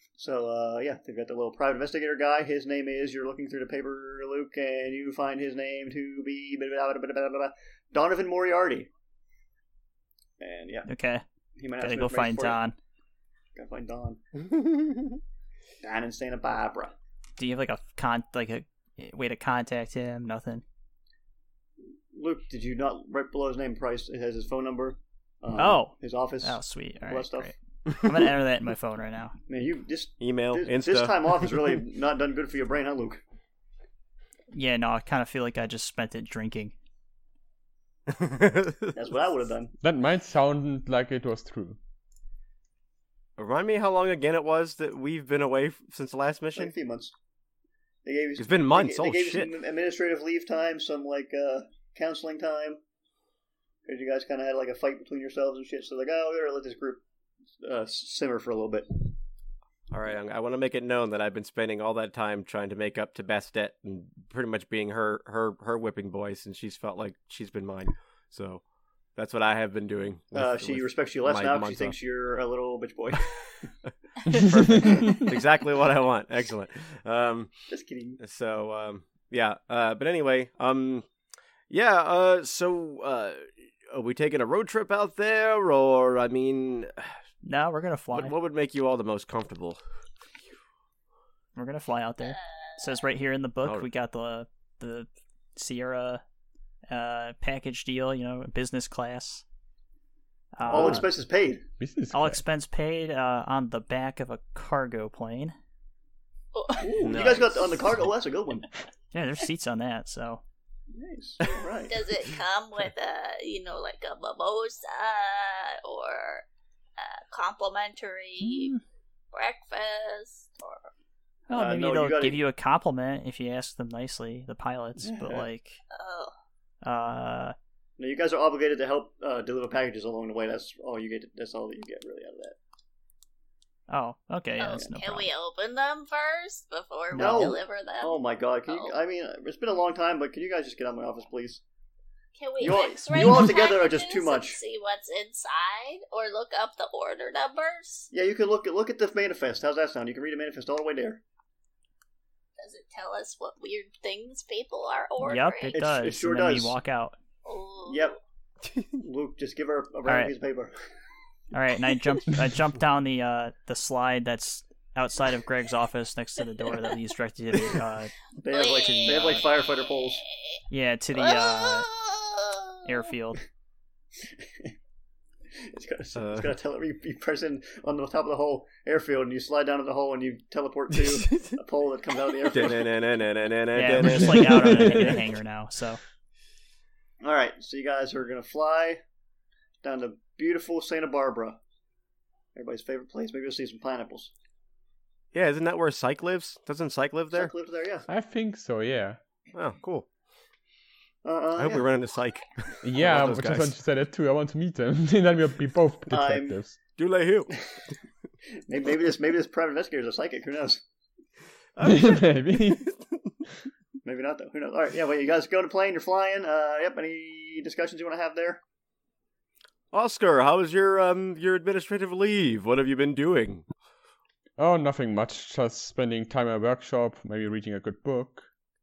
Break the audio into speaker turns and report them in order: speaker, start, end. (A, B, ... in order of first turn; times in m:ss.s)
0:00.2-0:08.9 A
0:10.4-0:10.9 A
0:10.9-0:11.2 B
0:11.6-0:12.6 A
0:11.8-0:12.8 B
0:13.5-0:14.2 A
0:14.5-0:15.0 C
0:15.8-0:16.9 A
0:17.4-0:20.6 B
0:22.1-0:27.5 A
0:25.6-0:29.4 B
0:29.5-0:33.2 A
0:30.2-0:31.7 C
0:34.5-0:36.7 B
0:38.1-0:39.0 C
0:38.9-0:39.7 A
0:39.8-0:41.8 D
0:43.4-0:46.7 C
0:46.6-0:47.1 A
0:48.0-0:52.8 A
0:48.4-0:49.5 C
0:53.8-0:57.0 A
0:57.6-0:59.0 A
0:59.9-1:08.6 C
1:09.2-1:11.9 C
1:10.3-1:13.7 A
1:14.3-1:17.5 C
1:14.3-1:15.3 D
1:14.7-1:15.2 A
1:17.7-1:18.2 A
1:18.2-1:21.1 C
1:21.7-1:27.2 C
1:27.4-1:28.3 B
1:28.1-1:29.8 C
1:31.5-1:36.2 B
1:32.3-1:32.8 E
1:36.9-1:39.4 B
1:40.6-1:41.1 B
1:40.6-1:41.6 A
1:40.7-1:41.0 D
1:41.8-1:42.4 D
1:42.1-1:45.5 B
1:46.5-1:46.9 E
1:46.8-1:48.7 A
1:47.0-1:47.6 C
1:49.1-1:50.4 B
1:50.9-1:52.1 A
1:51.9-1:56.4 E
1:57.0-1:58.7 E
1:58.4-1:58.8 B
1:59.3-2:00.9 E
2:01.5-2:05.8 B
2:01.5-2:02.4 A
2:05.0-2:05.4 A
2:05.9-2:06.3 E
2:06.8-2:07.5 B
2:08.0-2:12.6 A
2:13.9-2:15.3 B
2:14.6-2:19.0 E
2:17.1-2:17.5 B
2:17.1-2:21.6 A
2:22.4-2:28.1 E
2:22.6-2:24.6 A
2:28.1-2:31.2 A
2:32.6-2:35.8 E
2:35.2-2:37.2 B
2:35.7-2:36.7 A
2:37.4-2:38.1 E
2:37.9-2:38.2 A
2:39.0-2:40.7 A
2:40.0-2:40.3 B
2:41.5-2:48.1 B
2:48.4-2:50.2 A
2:48.5-2:50.6 E
2:48.8-2:49.4 B
2:50.7-2:51.9 B
2:51.1-2:52.8 E
2:52.8-2:53.4 B
2:54.2-2:54.7 A
2:55.6-3:03.0 A
2:56.1-2:56.5 C
3:01.1-3:01.6 C
3:02.5-3:05.1 C
3:03.7-3:06.0 B
3:04.0-3:05.2 D
3:07.2-3:09.0 A
3:09.8-3:11.6 A
3:12.5-3:14.3 A
3:15.3-3:17.5 C
3:17.3-3:18.1 A
3:18.1-3:19.2 D
3:19.5-3:20.1 C
3:21.2-3:21.9 A
3:21.6-3:23.7 C
3:22.8-3:26.8 D
3:26.1-3:26.6 A
3:27.0-3:27.5 C
3:28.7-3:30.8 A
3:31.8-3:33.0 C
3:31.8-3:32.9 D
3:34.0-3:38.6 A
3:39.9-3:43.6 C
3:44.6-3:48.5 D